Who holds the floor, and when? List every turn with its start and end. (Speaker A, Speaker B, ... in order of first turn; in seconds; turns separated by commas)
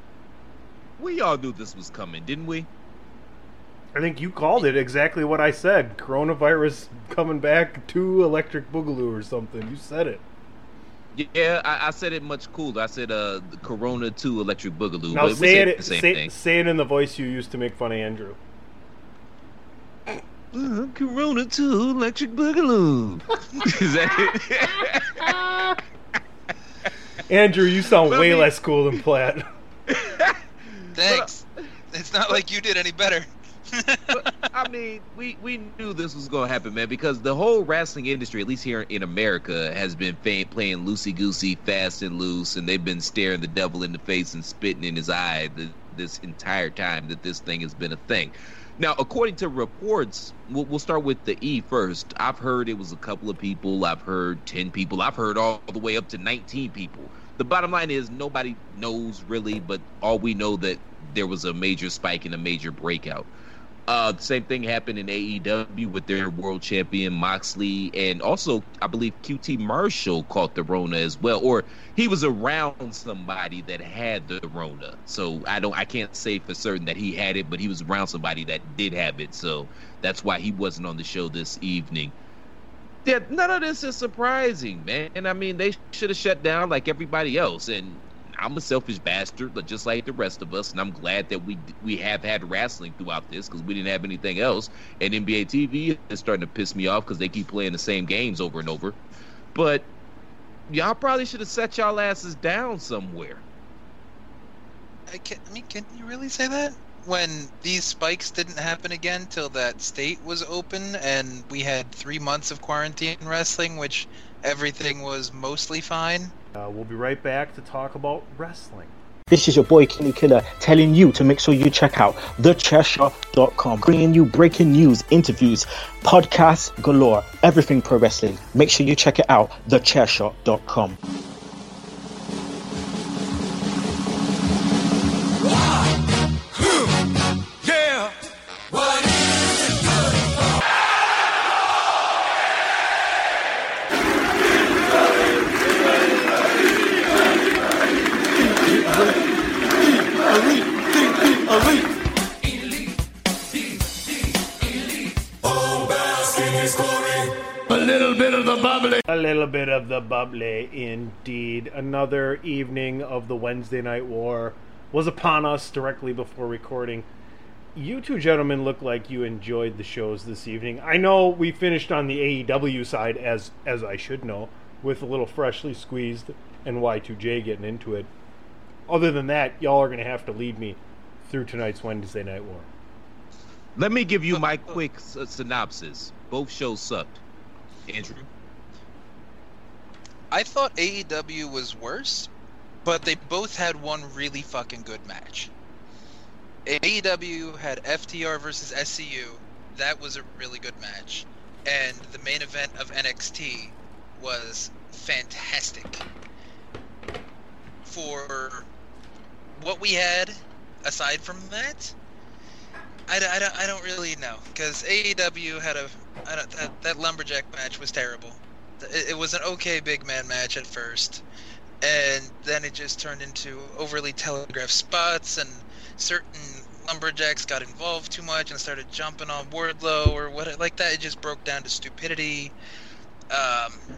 Speaker A: 1.0-2.7, Speaker B: 3.9-10.2, Speaker A: 11.1-16.3, Speaker B: 15.1-18.4, Speaker A: 20.5-25.4, Speaker B: 25.4-25.7, Speaker B: 27.3-29.5, Speaker A: 28.1-28.5, Speaker A: 29.9-31.3, Speaker C: 30.9-34.4, Speaker A: 34.1-63.3, Speaker A: 63.9-82.1, Speaker A: 83.0-99.0, Speaker A: 99.5-99.9, Speaker A: 100.7-103.4, Speaker C: 105.1-116.3, Speaker B: 116.5-118.9, Speaker D: 119.3-131.0, Speaker E: 135.4-135.8, Speaker E: 137.6-138.1, Speaker E: 148.7-149.1, Speaker E: 150.2-151.8, Speaker E: 154.7-159.0, Speaker B: 159.1-167.1, Speaker B: 167.7-178.1, Speaker B: 178.9-182.7, Speaker A: 183.8-187.2, Speaker C: 184.3-184.8, Speaker A: 187.9-188.2, Speaker C: 190.3-192.3, Speaker C: 192.8-195.5, Speaker C: 196.7-206.0, Speaker C: 207.8-208.7, Speaker C: 209.6-211.9, Speaker C: 213.1-221.2, Speaker C: 221.8-232.5, Speaker C: 233.3-233.8